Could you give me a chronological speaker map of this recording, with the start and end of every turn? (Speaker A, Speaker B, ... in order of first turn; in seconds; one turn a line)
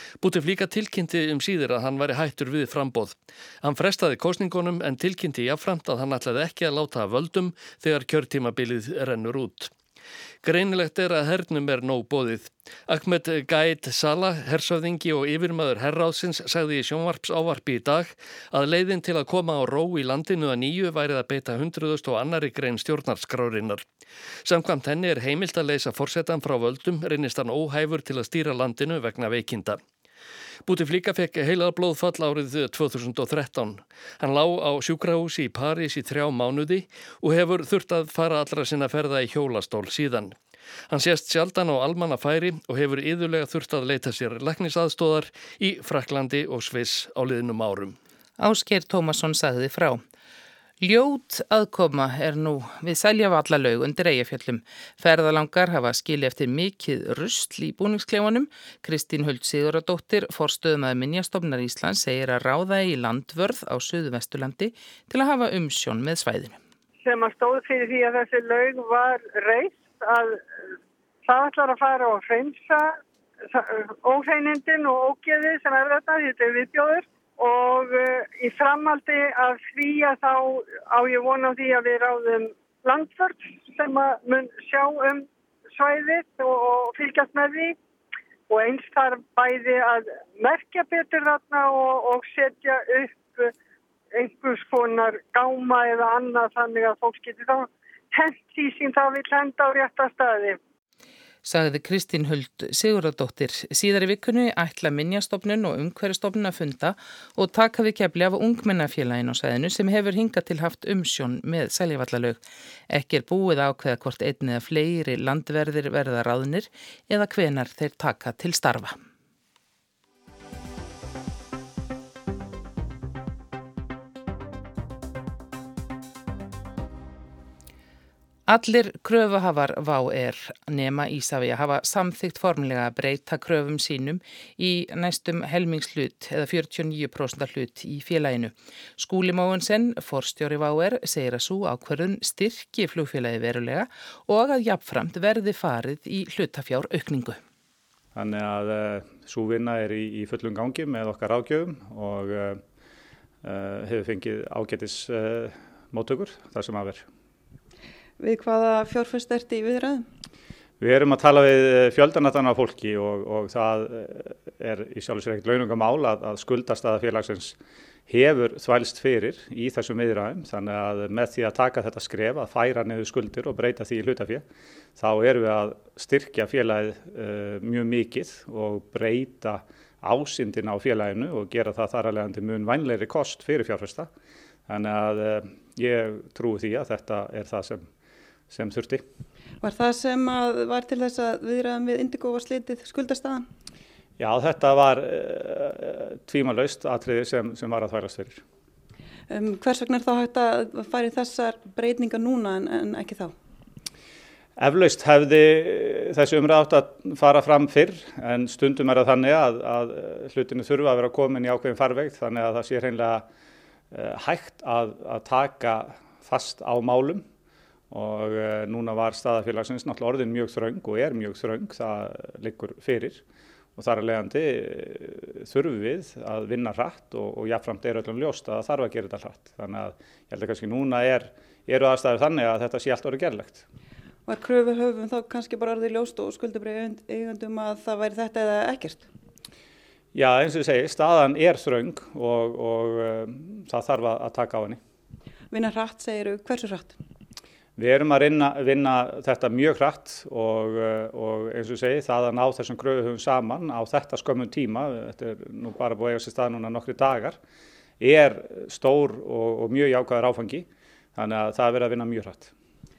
Speaker A: 0.2-9.7
Speaker A: 10.4-23.9
Speaker A: 24.4-29.8
Speaker A: 30.6-40.4
Speaker A: 40.9-48.0
Speaker B: 48.4-50.0
Speaker B: 50.8-66.6
Speaker C: 67.0-70.4
Speaker C: 71.2-73.0
Speaker C: 73.5-87.8
Speaker C: 88.5-93.5
Speaker C: 94.1-100.6
Speaker B: 101.4-118.9
Speaker B: 128.5-147.4
Speaker D: 148.1-152.6
Speaker D: 153.4-157.1
Speaker E: 158.2-160.1
Speaker D: 160.8-167.6
Speaker D: 168.1-174.4
Speaker D: 175.0-184.1
Speaker D: 184.7-187.9
Speaker D: 188.5-189.0
Speaker E: 189.6-193.5
Speaker D: 194.2-198.4
Speaker E: 199.3-203.3
Speaker D: 204.6-213.2
Speaker D: 213.9-217.2
Speaker D: 217.9-223.2
Speaker D: 223.8-233.6
Speaker E: 234.2-239.1
Speaker D: 240.1-244.8
Speaker E: 245.5-247.0
Speaker D: 247.8-257.4
Speaker D: 258.0-262.5